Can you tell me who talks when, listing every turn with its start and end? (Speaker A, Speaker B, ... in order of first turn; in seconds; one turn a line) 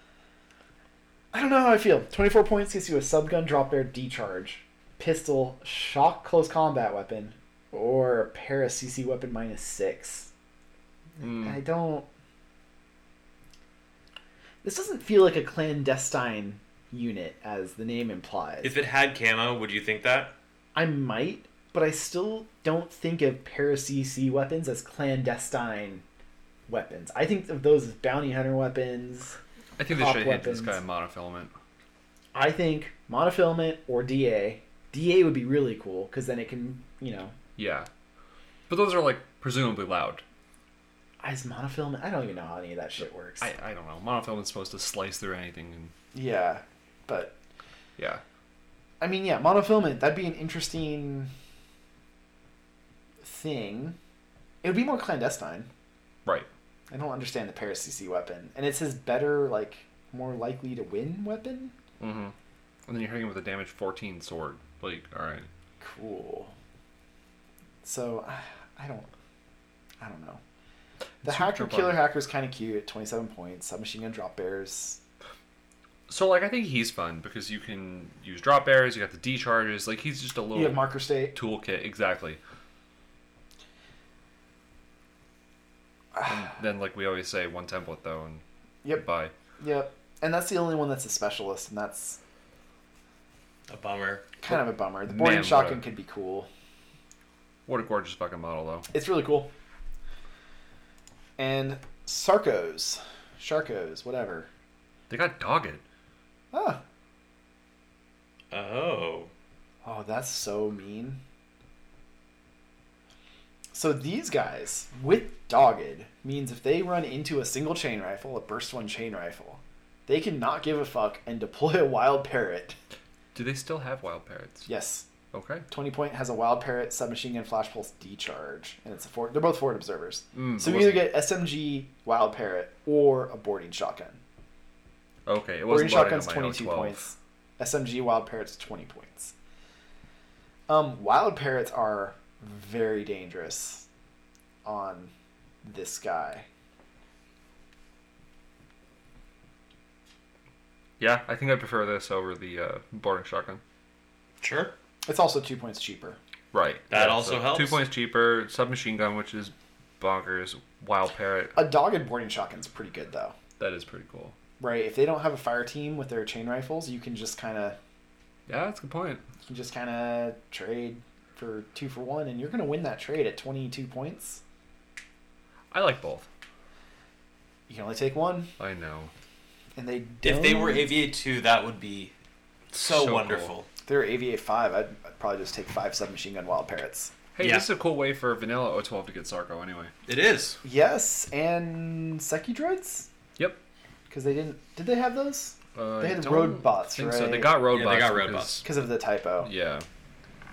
Speaker A: 1.3-10.3
Speaker B: 11.2-11.6
Speaker A: 11.2-12.1
Speaker A: 14.6-18.7
Speaker C: 18.6-20.3
Speaker A: 20.7-26.0
Speaker A: 26.7-29.4
Speaker B: 29.8-31.5
Speaker A: 29.9-30.8
Speaker A: 32.3-37.3
Speaker B: 37.6-37.9
Speaker B: 38.7-40.2
Speaker A: 41.2-43.5
Speaker B: 43.4-45.9
Speaker A: 46.1-47.4
Speaker B: 48.0-48.2
Speaker A: 49.0-51.3
Speaker A: 53.2-54.0
Speaker A: 54.6-55.7
Speaker A: 56.9-61.7
Speaker B: 62.0-62.3
Speaker B: 62.9-65.5
Speaker A: 65.8-66.5
Speaker A: 67.8-69.1
Speaker A: 70.0-70.4
Speaker B: 71.2-72.0
Speaker A: 71.2-75.0
Speaker B: 76.1-82.4
Speaker A: 80.5-81.3
Speaker B: 86.2-88.4
Speaker B: 89.0-89.3
Speaker A: 89.6-92.2
Speaker C: 93.7-94.2
Speaker A: 94.4-96.5
Speaker B: 95.0-95.8
Speaker B: 97.7-98.9
Speaker A: 98.9-99.5
Speaker A: 101.4-104.5
Speaker B: 105.1-105.8
Speaker A: 106.5-106.8
Speaker C: 108.5-109.3
Speaker A: 109.8-111.2
Speaker A: 113.7-122.8
Speaker B: 123.3-124.7
Speaker A: 124.7-125.0
Speaker B: 125.3-125.7
Speaker A: 125.7-134.2
Speaker B: 130.3-131.1
Speaker B: 135.2-137.0
Speaker A: 135.7-139.3
Speaker A: 140.7-143.8
Speaker A: 144.6-145.1
Speaker A: 145.6-146.5
Speaker B: 151.0-153.6
Speaker C: 154.4-154.7
Speaker A: 155.1-156.2
Speaker B: 156.5-161.6
Speaker C: 156.9-157.8
Speaker A: 161.6-163.3
Speaker B: 163.6-164.3
Speaker A: 164.6-167.8
Speaker B: 168.5-169.2
Speaker A: 169.4-174.4
Speaker B: 175.7-176.3
Speaker A: 177.7-178.5
Speaker B: 178.6-179.1
Speaker A: 179.8-181.0
Speaker C: 180.2-182.1
Speaker B: 182.7-183.5
Speaker C: 182.7-183.7
Speaker A: 183.8-187.1
Speaker B: 187.3-189.9
Speaker C: 187.4-187.7
Speaker C: 190.1-190.6
Speaker A: 190.6-193.1
Speaker A: 194.1-197.6
Speaker B: 195.7-198.7
Speaker C: 197.7-198.6
Speaker A: 198.6-199.5
Speaker B: 199.4-199.8